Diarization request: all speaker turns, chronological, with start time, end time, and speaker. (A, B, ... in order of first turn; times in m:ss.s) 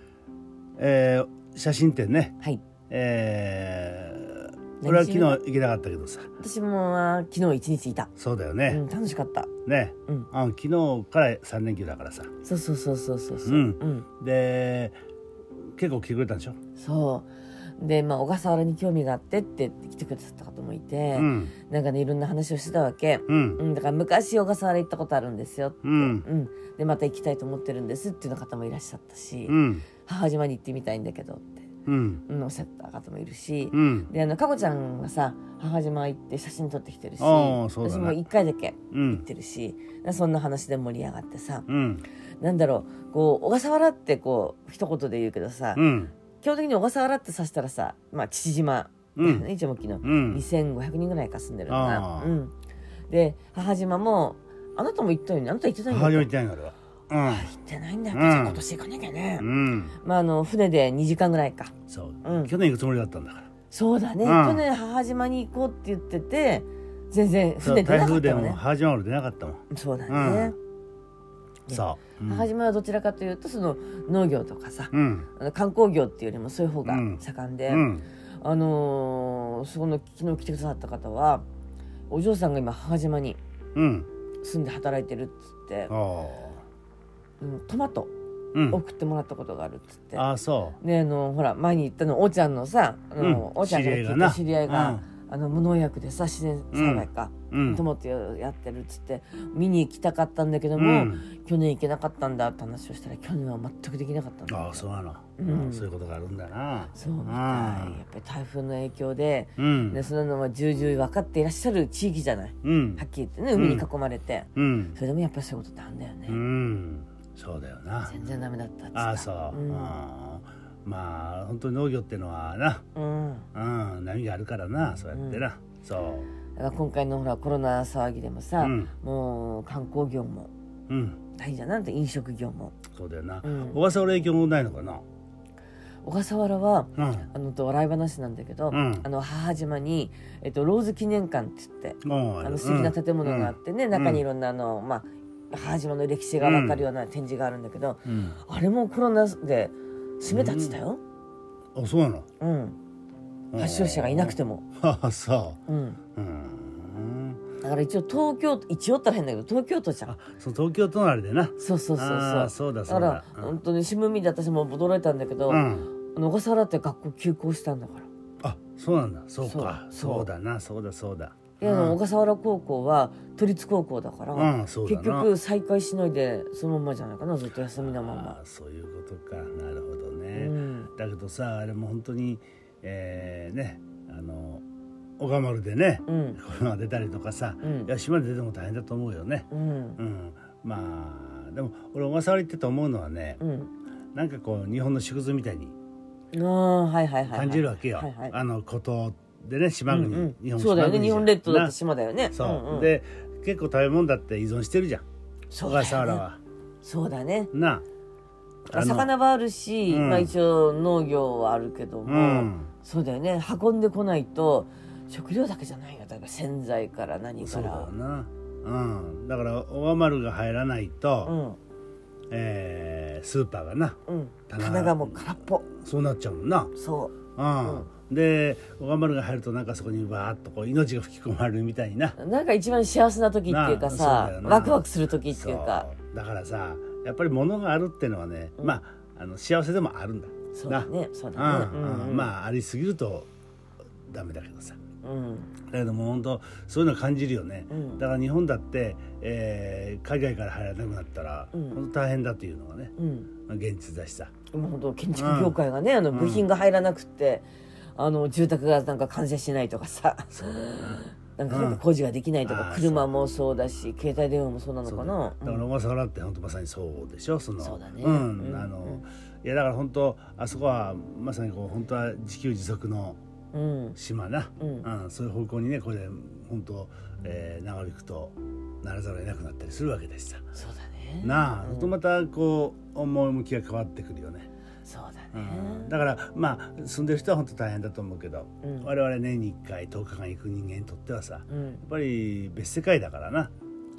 0:00.8-0:02.4 A
0:02.9-0:06.3 A
0:04.8-0:05.4 B
0:06.4-0:08.1 B
0:08.2-0:08.8 A
0:08.7-0:09.5 B
0:09.6-0:12.3 A
0:12.4-0:14.1 B
0:13.4-0:15.0 A
0:15.7-0:16.6 A
0:16.8-0:31.7 B
0:21.2-0:21.6 A
0:23.3-0:23.6 A
0:25.8-0:26.3 A
0:29.5-0:29.9 A
0:31.9-0:32.2 A
0:32.3-0:41.7 B
0:33.7-0:34.1 A
0:37.2-0:38.2 A
0:38.9-0:39.2 A
0:41.7-0:42.0 A
0:42.4-0:45.8 B
0:45.8-0:46.1 A
0:46.4-0:52.5 B
0:49.2-0:49.5 A
0:50.0-0:50.4 A
0:51.7-0:52.4 A
0:53.1-0:56.3 B
0:55.9-0:57.5 A
0:57.2-0:59.5 B
0:58.1-0:58.6 A
0:59.4-1:00.0 A
1:00.0-1:01.7 B
1:01.9-1:03.5 A
1:02.2-1:02.5 B
1:03.7-1:08.6 B
1:04.2-1:04.6 A
1:07.6-1:10.6 A
1:09.7-1:10.6 B
1:11.7-1:17.9 B
1:11.7-1:12.5 A
1:14.9-1:15.3 A
1:16.8-1:18.0 A
1:18.4-1:21.4 B
1:22.1-1:23.4 B
1:23.8-1:24.1 A
1:24.4-1:25.9 B
1:25.9-1:26.6 A
1:27.4-1:28.1 B
1:28.5-1:28.8 A
1:28.7-1:30.2 B
1:30.2-1:30.8 A
1:30.8-1:44.8 B
1:33.2-1:35.0 A
1:36.7-1:37.8 A
1:40.8-1:41.2 A
1:44.5-1:48.0 A
1:45.4-1:45.9 B
1:46.9-1:56.4 B
1:49.6-1:50.0 A
1:52.6-1:53.0 A
1:53.6-1:53.9 A
1:54.6-1:55.0 A
1:56.3-1:58.2 A
1:58.1-2:00.0 B
1:58.9-2:02.8 A
2:03.0-2:03.5 B
2:03.5-2:06.3 A
2:05.1-2:05.4 B
2:06.6-2:10.5 B
2:08.6-2:08.9 A
2:10.9-2:11.2 A
2:11.4-2:12.8 B
2:12.9-2:15.0 A
2:13.4-2:13.8 B
2:16.0-2:31.0 B
2:17.0-2:17.3 A
2:18.7-2:19.1 A
2:22.0-2:24.2 A
2:26.4-2:26.9 A
2:28.1-2:28.4 A
2:30.3-2:30.8 A
2:31.8-2:32.3 A
2:32.4-2:32.8 B
2:33.5-2:35.6 A
2:33.6-2:34.6 B
2:35.7-2:36.0 B
2:36.2-2:37.4 A
2:37.6-2:40.1 B
2:40.1-2:43.5 A
2:41.6-2:48.1 B
2:45.5-2:45.9 A
2:48.4-2:52.0 A
2:49.4-2:50.3 B
2:51.6-2:58.4 B
2:54.3-2:55.3 A
2:57.8-3:04.6 A
3:00.4-3:00.9 B
3:05.2-3:13.4 A
3:06.1-3:06.4 B
3:07.6-3:07.9 B
3:09.5-3:10.0 B
3:13.4-3:13.7 B
3:14.2-3:15.8 A
3:16.3-3:18.4 B
3:17.3-3:21.7 A
3:19.9-3:22.9 B
3:22.3-3:25.0 A
3:25.5-3:26.2 B
3:25.6-3:26.4 A
3:26.8-3:27.5 B
3:27.5-3:27.8 A
3:28.7-3:29.1 A
3:28.7-3:37.9 B
3:29.9-3:30.3 A
3:32.1-3:32.7 A
3:37.4-3:41.4 A
3:41.2-3:41.6 B
3:42.3-3:44.0 A
3:44.1-3:45.7 B
3:44.5-3:46.7 A
3:46.8-3:47.9 B
3:47.4-3:52.2 A
3:52.2-3:55.9 B
3:53.5-4:03.3 A
4:00.5-4:02.3 B
4:04.1-4:04.8 A
4:05.0-4:05.5 B
4:05.7-4:12.9 A
4:07.7-4:08.0 B
4:11.5-4:11.8 B
4:13.0-4:13.3 B
4:13.5-4:14.3 A
4:14.5-4:25.7 B
4:15.2-4:15.6 A
4:16.1-4:16.5 A
4:20.3-4:21.8 A
4:22.4-4:23.2 A
4:24.8-4:33.2 A
4:27.6-4:29.0 B
4:33.5-4:34.0 B
4:34.0-4:40.5 A
4:34.6-4:34.9 B
4:40.5-4:42.0 B
4:41.2-4:44.5 A
4:44.8-4:45.9 B
4:45.3-4:53.5 A
4:48.6-4:48.9 B
4:51.5-4:51.8 B